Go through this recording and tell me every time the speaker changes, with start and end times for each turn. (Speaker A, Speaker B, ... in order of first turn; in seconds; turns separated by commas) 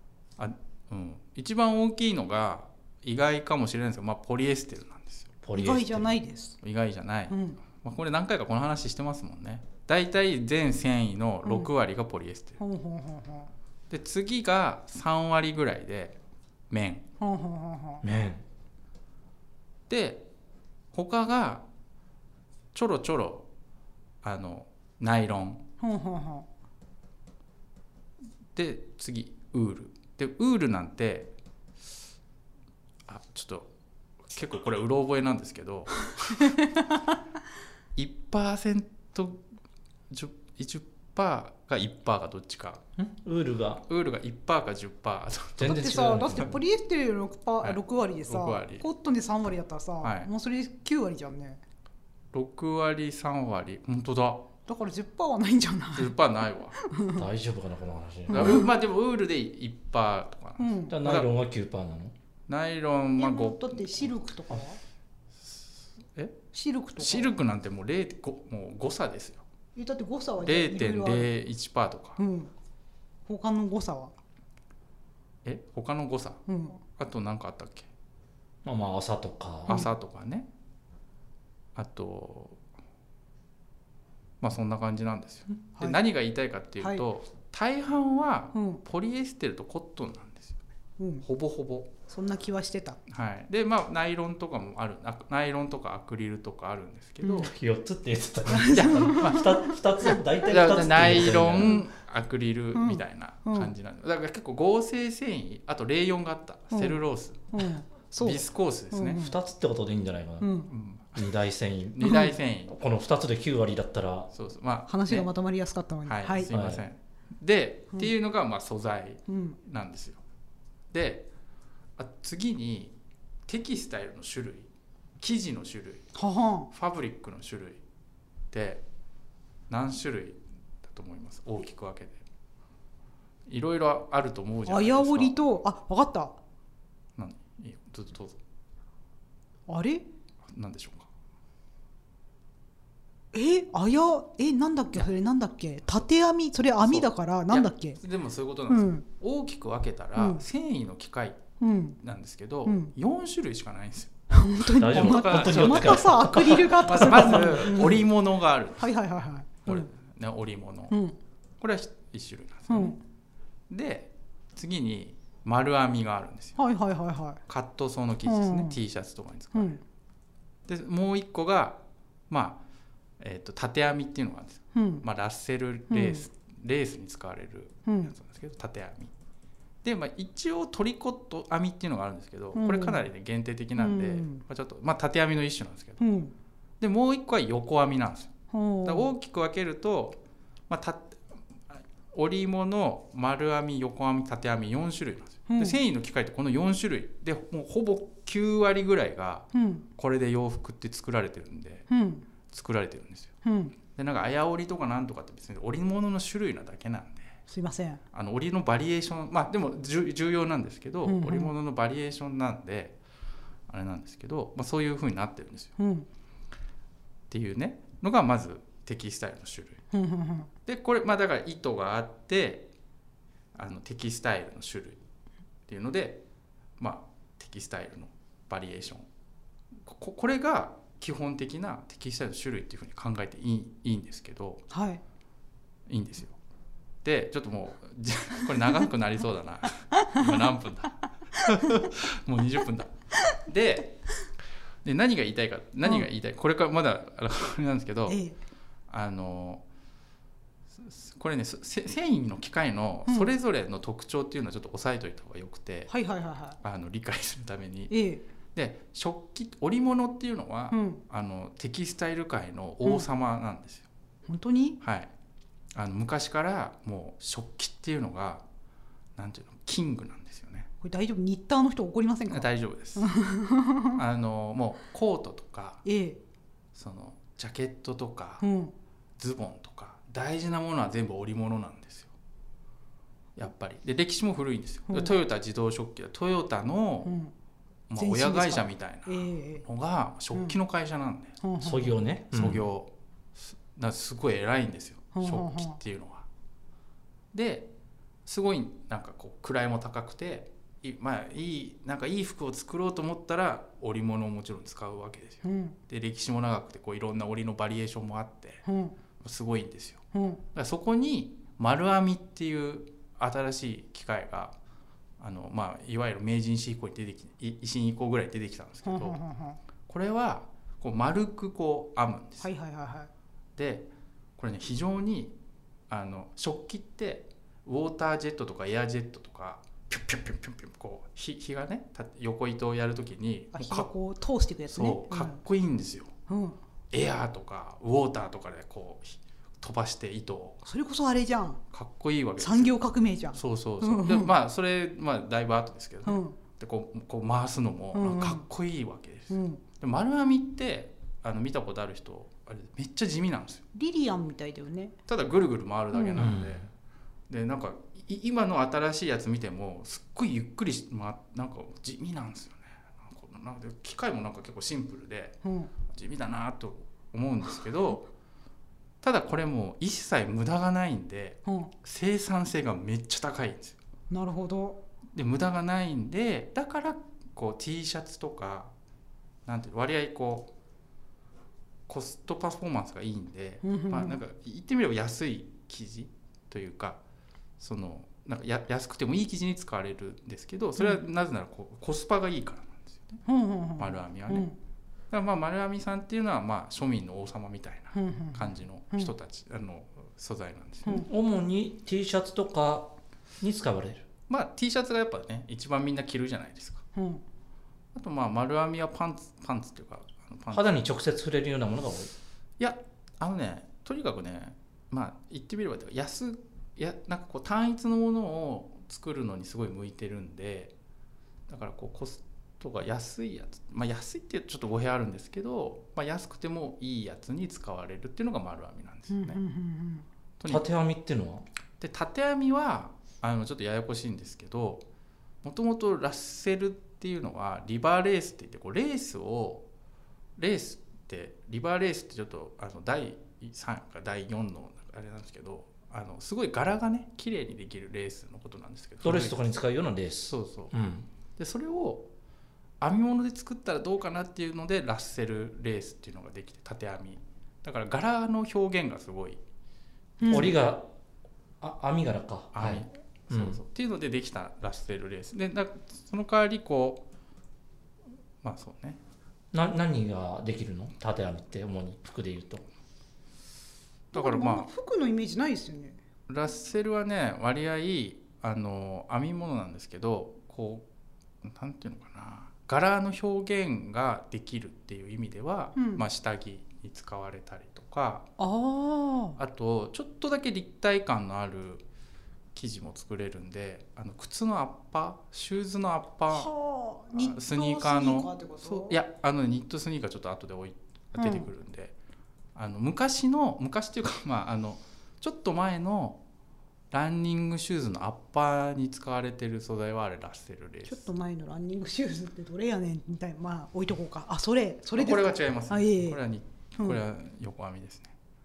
Speaker A: 0.4-5.3, Speaker B: 5.4-6.1, Speaker C: 5.5-6.6, Speaker A: 6.6-12.6, Speaker C: 7.3-7.6, Speaker C: 11.4-11.7, Speaker C: 12.6-13.5, Speaker A: 13.9-16.2, Speaker A: 16.7-17.1, Speaker C: 17.2-18.0, Speaker B: 18.0-18.4, Speaker A: 19.9-20.3, Speaker A: 20.9-21.6, Speaker A: 22.7-23.5, Speaker A: 24.2-25.7, Speaker C: 25.8-26.5, Speaker A: 28.6-31.3, Speaker A: 33.1-33.7, Speaker A: 34.3-36.6, Speaker C: 36.5-36.8, Speaker A: 38.0-39.4, Speaker A: 40.1-42.8, Speaker B: 43.0-43.9, Speaker A: 43.9-45.9, Speaker B: 45.6-46.6, Speaker C: 45.6-51.6, Speaker A: 47.6-48.9, Speaker A: 50.0-50.3, Speaker A: 52.3-54.5, Speaker C: 54.7-56.1, Speaker A: 55.9-56.8, Speaker C: 56.8-57.2, Speaker B: 57.2-58.7, Speaker C: 58.3-58.7, Speaker A: 58.3-61.3, Speaker C: 60.6-61.0, Speaker B: 60.9-62.1, Speaker A: 62.5-64.1, Speaker C: 63.2-64.8, Speaker A: 66.2-66.4, Speaker C: 66.5-67.3, Speaker A: 67.0-69.4, Speaker C: 69.8-71.3, Speaker A: 70.4-72.2, Speaker C: 72.2-72.5, Speaker C: 73.3-74.2, Speaker A: 75.5-76.4, Speaker C: 76.5-76.8, Speaker A: 77.0-77.9, Speaker B: 78.6-79.8, Speaker A: 79.7-80.5, Speaker A: 81.8-82.6, Speaker A: 84.4-90.6, Speaker C: 86.8-87.0, Speaker C: 88.5-88.8, Speaker C: 91.0-91.2, Speaker A: 91.2-91.9, Speaker C: 92.1-93.0, Speaker A: 93.1-97.5, Speaker C: 97.2-97.5, Speaker B: 97.4-101.8, Speaker C: 98.5-100.2, Speaker A: 98.7-99.5, Speaker A: 100.4-107.7, Speaker C: 102.8-103.7, Speaker C: 106.7-109.4, Speaker A: 108.2-109.2, Speaker B: 109.2-110.5, Speaker C: 110.4-110.7, Speaker A: 110.7-111.3, Speaker B: 111.2-114.3, Speaker A: 112.0-112.8, Speaker C: 112.0-112.3, Speaker A: 114.3-115.3, Speaker C: 114.9-116.5, Speaker A: 116.1-120.2, Speaker B: 116.5-116.8, Speaker C: 119.3-119.6, Speaker A: 120.9-121.3, Speaker A: 122.0-123.0, Speaker A: 123.5-124.7, Speaker A: 125.2-126.1, Speaker C: 126.2-126.7, Speaker A: 126.7-127.8, Speaker A: 128.5-128.8, Speaker A: 129.7-132.2, Speaker A: 133.5-135.4, Speaker C: 134.7-136.4, Speaker A: 137.2-138.4, Speaker C: 139.7-140.1, Speaker A: 140.5-141.1, Speaker C: 143.3-148.0, Speaker A: 146.8-151.4, Speaker C: 148.7-149.1, Speaker C: 150.2-150.4, Speaker C: 151.6-152.0, Speaker A: 152.0-154.1, Speaker C: 152.7-152.9, Speaker C: 154.3-158.1, Speaker A: 154.8-158.9, Speaker B: 154.8-157.5, Speaker C: 158.8-159.9, Speaker A: 159.7-161.0, Speaker C: 160.9-161.2, Speaker A: 161.6-162.9, Speaker C: 162.7-163.0, Speaker A: 163.7-166.6, Speaker C: 166.6-167.4, Speaker A: 167.5-169.8, Speaker C: 168.3-168.8, Speaker C: 169.5-169.8, Speaker A: 170.7-172.6, Speaker A: 173.2-179.1, Speaker C: 174.7-175.1, Speaker C: 175.9-176.3, Speaker C: 177.9-178.1, Speaker A: 179.8-186.0, Speaker C: 182.5-183.0, Speaker C: 183.8-184.4, Speaker C: 186.0-186.3, Speaker A: 186.8-188.3, Speaker C: 188.5-189.1, Speaker A: 188.8-191.2, Speaker A: 191.7-201.9, Speaker C: 195.5-195.8, Speaker C: 199.5-199.8, Speaker C: 201.9-202.3, Speaker A: 202.5-203.3, Speaker C: 203.4-203.8, Speaker A: 203.9-207.4, Speaker C: 207.5-208.0, Speaker A: 208.1-213.0, Speaker C: 211.1-211.5, Speaker A: 213.7-215.7, Speaker C: 215.8-216.1, Speaker A: 217.3-219.8, Speaker C: 219.9-220.5, Speaker A: 220.7-222.7, Speaker A: 223.5-225.0, Speaker A: 225.7-226.2, Speaker A: 226.8-229.1, Speaker A: 229.8-234.7, Speaker C: 234.7-235.0, Speaker A: 235.9-236.4, Speaker A: 237.0-244.1, Speaker C: 239.9-240.2, Speaker C: 241.4-241.8, Speaker A: 244.8-248.2, Speaker C: 248.1-248.4, Speaker A: 248.9-249.6, Speaker A: 250.8-255.9, Speaker C: 253.1-253.3, Speaker C: 255.9-256.6, Speaker A: 256.6-257.9, Speaker C: 257.9-258.2, Speaker A: 258.6-263.9, Speaker C: 260.7-261.0, Speaker C: 264.3-264.8, Speaker A: 264.8-265.1, Speaker A: 265.7-268.4, Speaker A: 269.2-270.7, Speaker C: 270.8-274.0, Speaker A: 272.3-273.1, Speaker A: 273.9-275.9, Speaker C: 275.9-276.2, Speaker A: 276.8-278.4, Speaker C: 278.4-278.7, Speaker A: 279.2-282.1, Speaker A: 283.4-287.1, Speaker C: 284.9-285.1, Speaker C: 287.0-287.3, Speaker A: 287.9-291.4, Speaker C: 287.9-289.6, Speaker C: 291.4-292.0, Speaker B: 291.6-292.6, Speaker A: 292.3-296.3, Speaker C: 295.1-295.8, Speaker A: 297.3-297.7, Speaker A: 298.3-308.6, Speaker C: 305.4-305.8, Speaker C: 308.6-309.0, Speaker A: 309.2-310.0, Speaker C: 310.1-310.4, Speaker A: 310.5-314.6, Speaker A: 315.2-319.2, Speaker C: 318.8-319.6, Speaker A: 319.9-322.5, Speaker C: 322.4-323.1, Speaker A: 323.6-325.4, Speaker A: 325.9-333.9, Speaker C: 333.5-335.4, Speaker A: 334.7-336.1, Speaker C: 336.3-336.6, Speaker A: 336.9-340.6, Speaker C: 340.6-341.6, Speaker A: 341.7-342.8, Speaker C: 342.4-344.3, Speaker A: 343.3-353.6, Speaker C: 346.1-346.4, Speaker C: 347.9-348.4, Speaker C: 349.3-349.6, Speaker C: 353.8-354.9, Speaker A: 355.1-356.7, Speaker C: 355.9-356.4, Speaker B: 356.1-356.6, Speaker A: 357.3-368.1, Speaker C: 365.4-365.7, Speaker A: 369.0-373.8, Speaker C: 371.5-371.7, Speaker C: 374.1-374.8, Speaker A: 375.1-378.7, Speaker A: 379.5-380.5, Speaker A: 381.9-387.0, Speaker C: 383.6-384.2, Speaker A: 387.6-393.2, Speaker C: 393.2-394.6, Speaker A: 393.8-394.5, Speaker A: 395.1-401.1, Speaker C: 397.9-399.1, Speaker B: 401.1-404.1, Speaker A: 404.3-406.8, Speaker C: 406.9-407.2, Speaker A: 407.9-410.8, Speaker B: 410.5-412.1, Speaker A: 412.6-420.7, Speaker A: 421.5-429.4, Speaker C: 429.1-430.1, Speaker A: 430.4-430.7, Speaker B: 430.5-431.5, Speaker A: 431.8-434.9, Speaker A: 435.4-439.6, Speaker A: 440.4-449.4, Speaker B: 449.0-451.1, Speaker A: 450.3-450.8, Speaker A: 451.4-452.1, Speaker A: 452.8-459.4, Speaker C: 460.2-460.5, Speaker B: 460.3-460.9, Speaker B: 461.6-463.6, Speaker A: 462.5-467.1, Speaker A: 468.4-469.0, Speaker B: 469.5-472.6, Speaker A: 474.1-474.7, Speaker C: 474.1-476.0, Speaker A: 476.3-480.9, Speaker A: 481.4-488.3, Speaker C: 485.8-486.0, Speaker C: 488.4-489.4, Speaker A: 489.4-491.8, Speaker A: 492.6-496.5, Speaker C: 496.3-499.0, Speaker A: 497.1-501.9, Speaker C: 501.1-501.5, Speaker A: 502.6-506.2, Speaker A: 506.9-511.1, Speaker C: 510.9-516.2, Speaker A: 515.0-518.1